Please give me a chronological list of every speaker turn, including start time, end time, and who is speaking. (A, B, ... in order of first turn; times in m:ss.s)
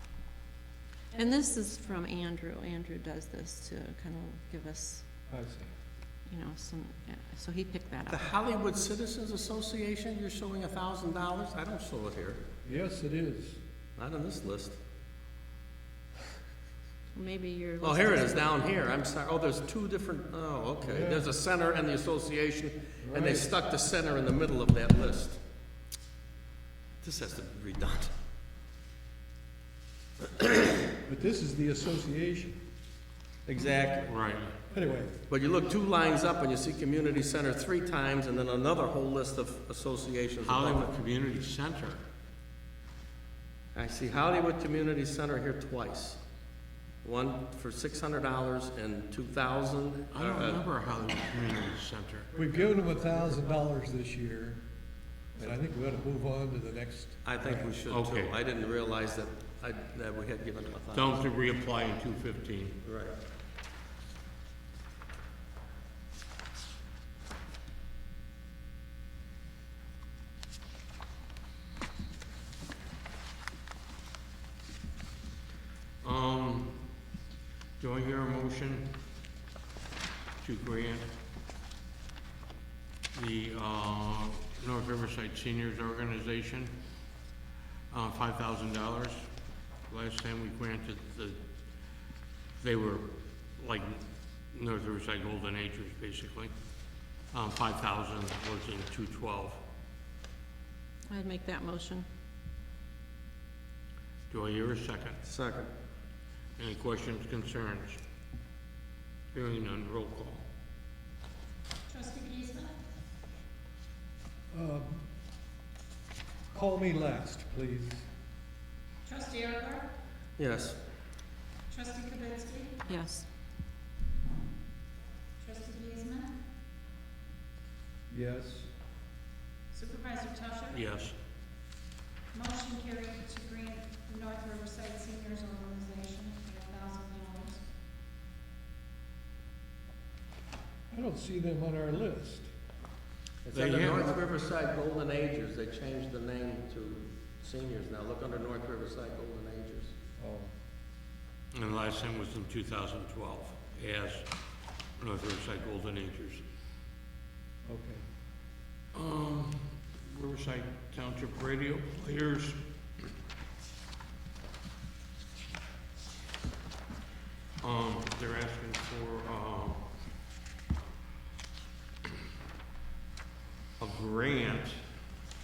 0:01.1-0:05.0 A
0:05.3-0:05.7 B
0:06.3-0:08.2 A
0:08.1-0:12.4 C
0:12.6-0:13.6 B
0:14.0-0:14.8 C
0:17.1-0:18.5 A
0:17.8-0:25.4 C
0:20.8-0:21.3 B
0:23.0-0:23.5 B
0:27.0-0:28.1 C
0:31.0-0:32.6 B
0:33.4-0:34.1 C
0:34.0-0:34.6 D
0:34.7-0:35.2 B
0:35.3-0:40.9 C
0:40.4-0:42.0 D
0:43.7-0:46.2 C
0:47.0-0:50.6 C
0:50.1-0:52.3 D
0:52.3-0:54.6 B
0:55.4-0:57.7 B
0:57.2-1:01.3 C
0:57.9-0:58.4 D
1:00.9-1:02.8 D
1:02.8-1:03.2 C
1:16.0-1:16.8 D
1:17.8-1:18.9 D
1:20.4-1:21.1 D
1:23.1-1:26.7 D
1:27.9-1:29.3 D
1:29.9-1:31.4 D
1:32.6-1:36.5 D
1:37.3-1:39.6 D
1:41.1-1:42.1 A
1:44.3-1:45.2 D
1:45.2-1:45.7 C
1:46.6-1:48.0 D
1:49.3-1:50.4 D
1:51.9-1:52.7 E
1:54.5-1:55.0 B
1:56.5-1:58.0 B
1:59.0-1:59.9 E
2:00.4-2:00.8 C
2:01.7-2:02.8 E
2:02.8-2:03.3 A
2:05.4-2:06.3 E
2:08.1-2:08.7 B
2:09.7-2:10.7 E
2:10.7-2:11.2 D
2:12.3-2:17.6 E
2:20.9-2:22.5 B
2:23.4-2:29.9 C
2:23.5-2:24.1 D
2:30.2-2:30.5 B
2:31.5-2:34.3 D
2:35.0-2:36.4 D
2:37.6-2:38.0 B
2:38.9-2:42.6 D
2:47.6-2:49.8 D
2:53.8-2:54.9 D